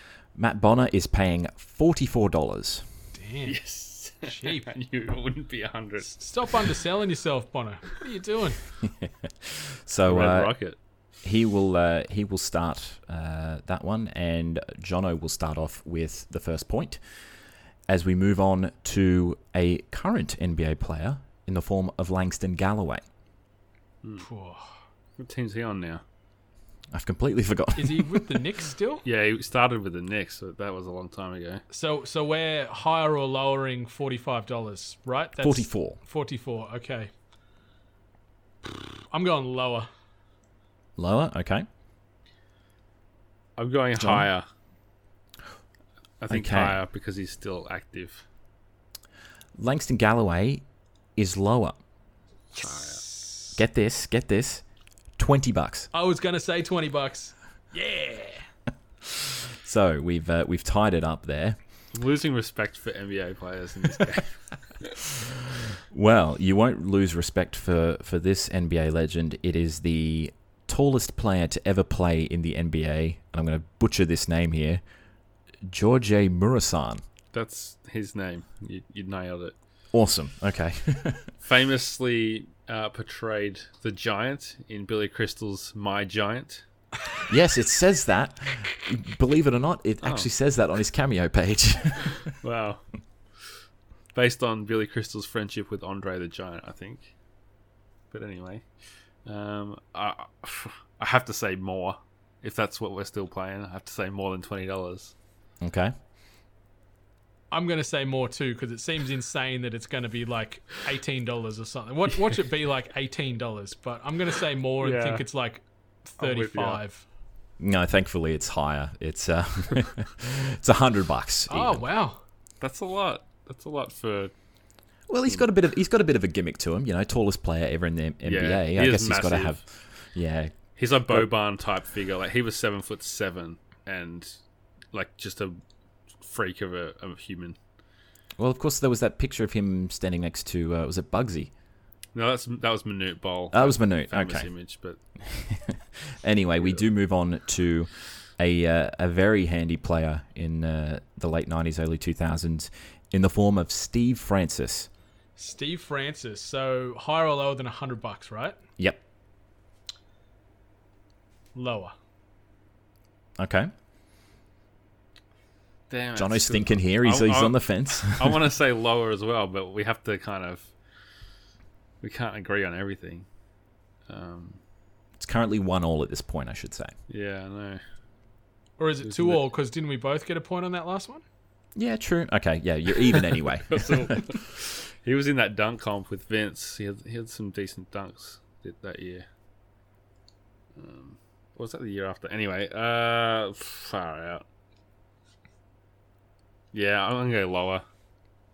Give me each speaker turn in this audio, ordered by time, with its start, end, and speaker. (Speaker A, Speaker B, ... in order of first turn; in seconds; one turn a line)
Speaker A: 0.3-2.9
Speaker B: 3.1-4.8
Speaker C: 3.5-6.7
Speaker B: 6.0-8.9
Speaker A: 9.0-23.0
Speaker C: 10.0-10.8
Speaker B: 24.2-24.8
Speaker C: 25.2-26.0
Speaker A: 26.9-28.4
Speaker B: 27.8-29.0
Speaker C: 29.0-31.6
Speaker B: 31.7-37.1
Speaker A: 35.4-36.0
Speaker B: 38.6-39.9
Speaker A: 41.0-41.6
Speaker C: 43.6-44.5
Speaker A: 44.0-44.3
Speaker C: 46.2-48.2
Speaker A: 46.3-46.8
Speaker A: 49.6-51.8
Speaker B: 52.5-53.5
Speaker C: 52.6-53.0
Speaker A: 53.5-55.9
Speaker B: 55.9-58.5
Speaker A: 59.6-61.6
Speaker C: 61.9-64.7
Speaker A: 65.9-74.8
Speaker A: 75.7-77.0
Speaker C: 77.3-79.6
Speaker A: 79.9-81.3
Speaker C: 81.4-86.7
Speaker A: 87.3-92.3
Speaker C: 90.0-90.3
Speaker C: 92.2-93.5
Speaker C: 94.1-97.2
Speaker C: 98.1-105.1
Speaker A: 105.6-105.9
Speaker B: 107.5-117.0
Speaker C: 114.8-115.2
Speaker C: 116.2-116.8
Speaker A: 117.6-121.8
Speaker B: 121.5-122.2
Speaker C: 122.6-124.3
Speaker A: 125.1-131.3
Speaker C: 128.2-130.0
Speaker C: 130.7-134.4
Speaker C: 134.9-135.6
Speaker C: 136.1-137.6
Speaker A: 138.4-141.5
Speaker C: 142.1-145.0
Speaker A: 143.5-154.9
Speaker C: 146.6-146.8
Speaker B: 155.3-158.6
Speaker B: 161.5-161.9
Speaker A: 163.4-163.7
Speaker C: 165.9-170.7
Speaker A: 166.2-168.4
Speaker C: 172.0-173.3
Speaker C: 174.1-174.6
Speaker A: 175.2-176.9
Speaker C: 177.1-177.8
Speaker B: 178.8-181.2
Speaker C: 179.0-179.4
Speaker A: 181.7-184.2
Speaker C: 183.7-189.2
Speaker C: 190.7-194.4
Speaker C: 196.7-197.8